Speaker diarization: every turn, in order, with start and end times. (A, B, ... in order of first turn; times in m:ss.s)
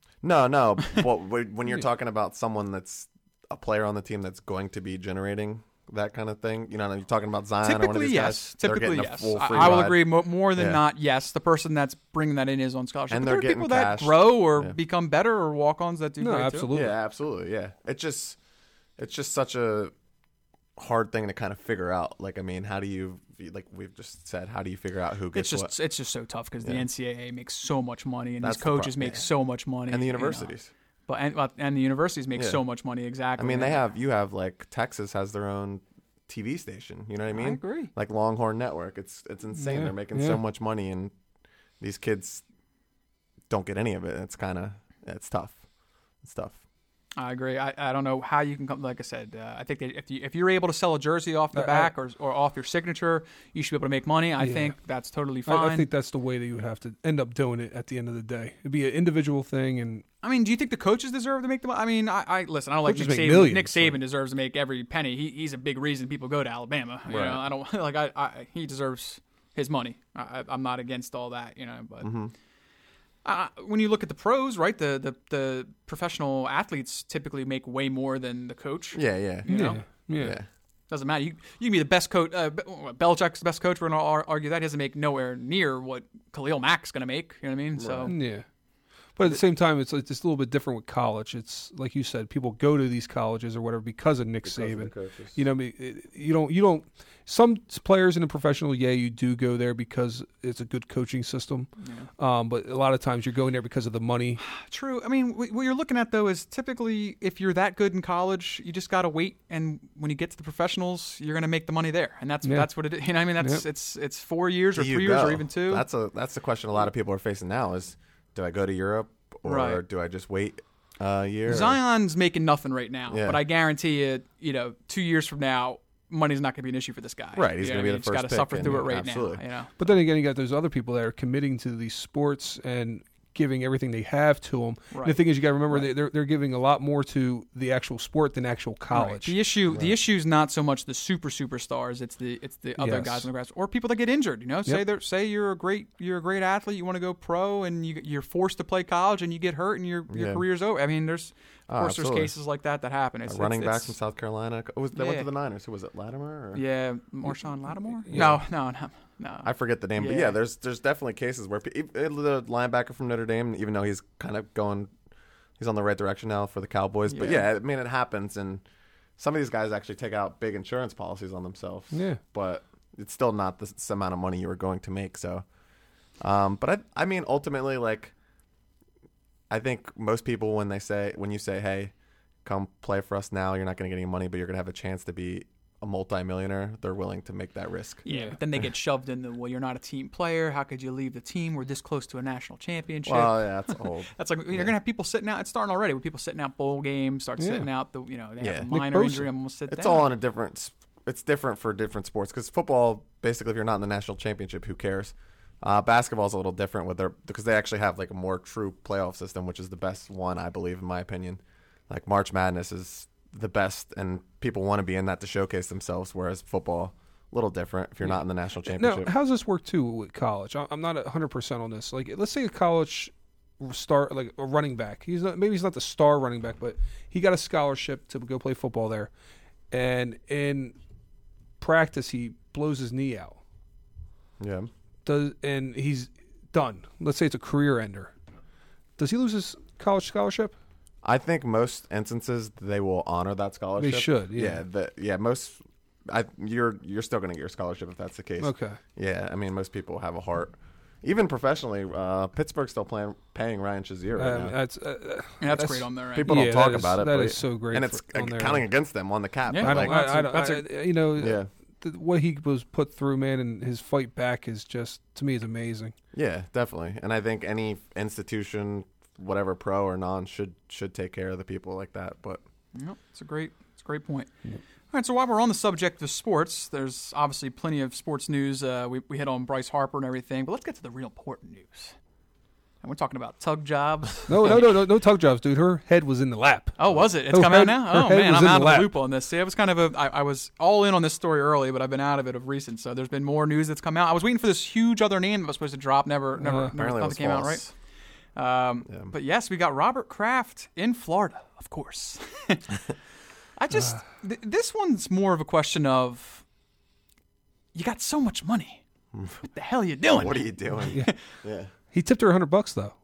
0:00.2-0:10.8 A
0:07.6-0:16.7 B
0:13.1-0:14.8 A
0:16.2-0:17.0 C
0:16.7-0:18.4 A
0:19.0-0:19.9 A
0:20.8-0:25.7 A
0:25.3-0:30.5 B
0:28.4-0:29.3 A
0:29.9-0:30.7 A
0:31.1-0:33.8 B
0:32.4-0:32.6 A
0:33.4-0:41.1 A
0:37.3-0:37.9 B
0:39.6-0:40.4 C
0:41.8-0:42.4 A
0:43.5-0:45.6 A
0:46.2-0:46.6 A
0:47.2-0:55.9 B
0:51.5-0:51.9 C
0:54.4-0:54.8 C
0:55.5-1:00.0 C
1:00.2-1:12.1 B
1:02.9-1:04.0 C
1:07.1-1:07.4 A
1:12.0-1:12.3 A
1:13.2-1:19.8 B
1:18.9-1:19.5 A
1:19.5-1:20.4 C
1:20.2-1:20.5 A
1:20.9-1:28.2 B
1:27.8-1:28.1 A
1:28.1-1:28.4 C
1:29.2-1:44.4 C
1:34.4-1:35.4 A
1:41.8-1:42.1 B
1:44.4-1:55.8 B
1:52.4-1:52.7 C
1:54.8-2:01.8 A
1:59.4-1:59.8 B
2:01.5-2:09.7 B
2:03.1-2:03.4 A
2:07.4-2:09.4 A
2:09.8-2:19.4 C
2:14.9-2:15.9 B
2:18.9-2:33.9 B
2:22.8-2:23.3 C
2:30.1-2:30.4 A
2:31.7-2:32.3 A
2:33.3-2:36.6 A
2:34.9-2:35.3 B
2:36.5-2:40.4 B
2:38.1-2:38.4 C
2:38.1-2:38.4 A
2:39.4-2:44.9 A
2:45.6-2:48.6 A
2:47.1-2:47.5 B
2:49.2-2:55.4 A
2:51.9-2:52.2 C
2:56.2-2:58.1 A
2:59.5-3:01.9 A
3:02.4-3:08.0 A
3:08.0-3:20.1 B
3:08.1-3:08.3 C
3:13.1-3:14.7 A
3:17.4-3:17.7 C
3:18.4-3:18.7 A
3:18.7-3:19.3 C
3:19.7-3:39.1 A
3:38.7-3:49.1 C
3:49.7-3:50.8 C
3:51.6-3:53.4 C
3:54.4-3:54.7 A
3:55.0-3:58.1 C
3:59.0-4:00.5 C
4:01.0-4:14.6 A
4:03.8-4:04.6 C
4:08.4-4:08.8 C
4:14.2-4:18.6 C
4:15.4-4:16.3 B
4:16.1-4:19.9 A
4:19.5-4:20.7 B
4:19.6-4:25.9 C
4:21.2-4:21.5 A
4:26.1-4:32.4 A
4:32.8-4:34.3 B
4:34.9-4:42.0 B
4:42.8-4:44.8 B
4:44.3-4:48.9 C
4:46.8-4:57.7 B
4:56.4-4:56.7 C
4:56.7-4:57.7 A
4:58.4-5:02.7 B
5:03.6-5:06.4 B
5:07.7-5:08.8 B
5:09.4-5:11.2 B
5:10.1-5:11.7 A
5:11.9-5:12.9 C